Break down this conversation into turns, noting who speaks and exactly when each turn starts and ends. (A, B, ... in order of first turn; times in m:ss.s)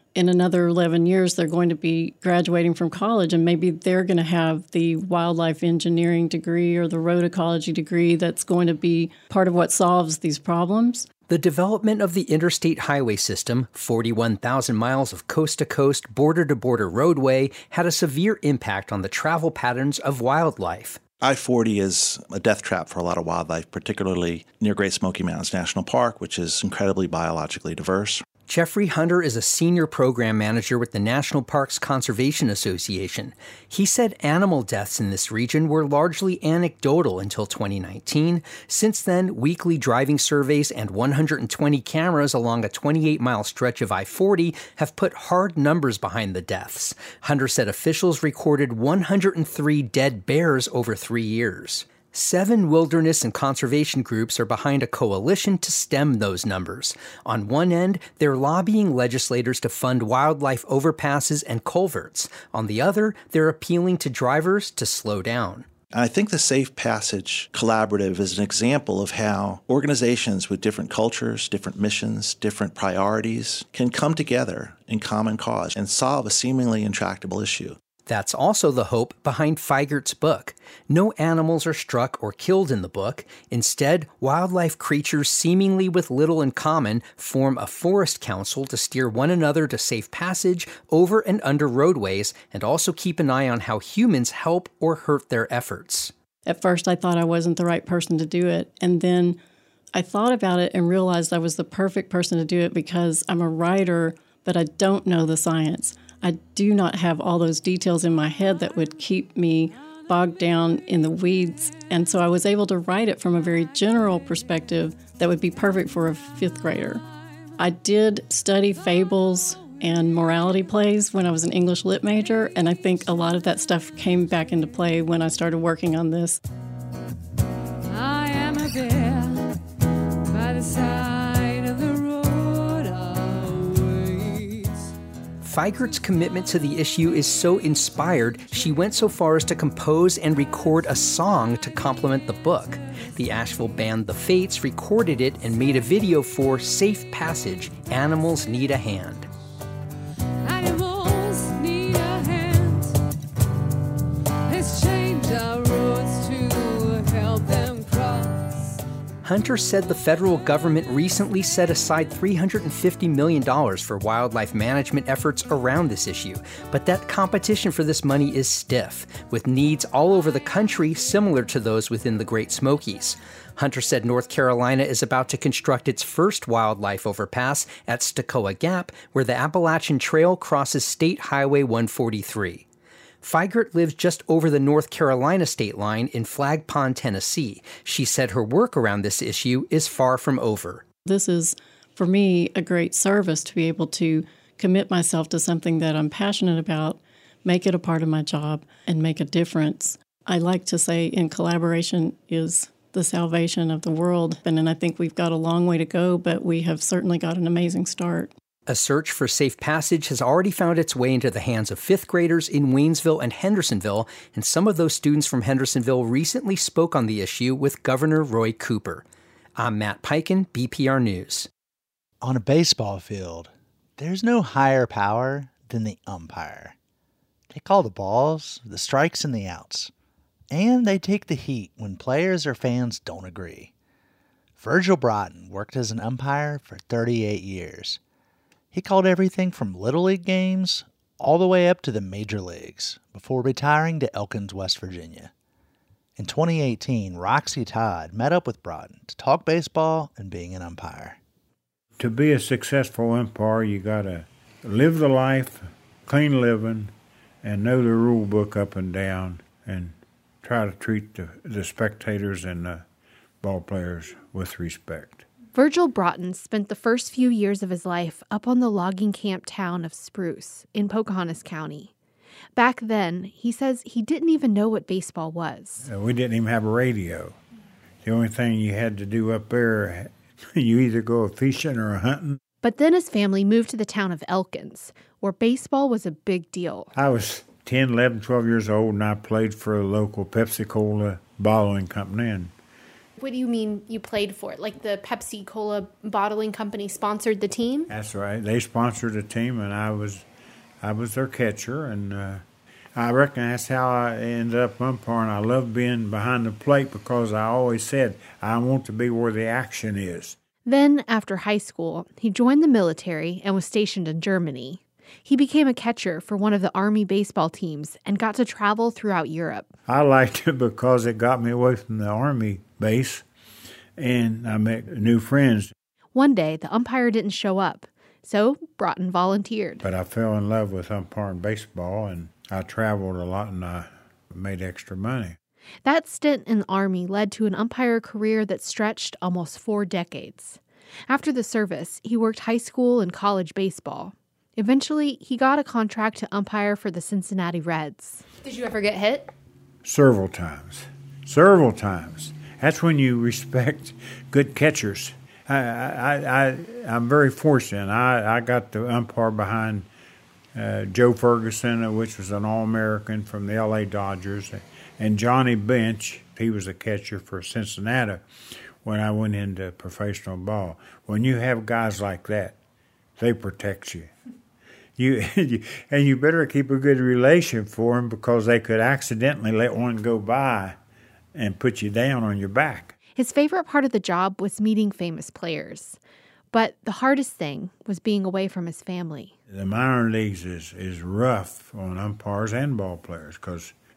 0:00.2-0:11.2 A
0:11.2-0:21.0 B
0:21.2-0:28.2 C
0:28.5-1:05.6 B
1:05.9-1:17.8 C
1:18.1-1:36.1 B
1:36.5-1:39.4 A
1:40.0-1:57.0 A
1:57.6-2:06.4 A
2:08.0-2:09.4 D
2:10.4-2:14.7 D
2:15.4-2:29.3 B
2:30.5-2:32.8 D
2:34.5-2:38.6 D
2:39.2-3:02.6 B
3:03.2-3:10.8 B
3:11.1-3:28.3 A
3:28.7-3:39.0 B
3:39.6-3:41.5 B
3:42.2-3:46.8 E
3:47.5-3:49.9 E
3:50.5-3:53.7 E
3:54.6-3:58.0 E
3:58.7-4:05.3 E
4:06.2-4:11.2 E
4:12.0-4:16.9 F
4:17.4-4:22.8 F
4:23.4-4:25.2 F
4:25.6-4:31.9 G
4:32.6-4:35.8 G
4:35.8-4:37.4 F
4:38.0-4:42.4 F
4:42.6-4:46.9 G
4:47.0-4:52.5 F
4:53.2-4:57.8 G
4:57.9-5:00.2 F
5:00.8-5:02.4 F
5:03.0-5:10.4 F
5:10.7-5:19.7 G
5:19.9-5:23.2 F
5:24.0-5:25.7 F
5:26.2-5:29.8 G
5:29.8-5:35.4 F
5:35.8-5:40.6 G
5:41.1-5:49.3 G
5:49.8-5:59.9 F
6:00.6-6:08.2 F
6:08.8-6:12.6 F
6:13.2-6:14.1 F
6:15.0-6:20.8 F
6:21.3-6:22.9 F
6:23.2-6:26.0 G
6:26.5-6:29.3 G
6:29.5-6:33.7 F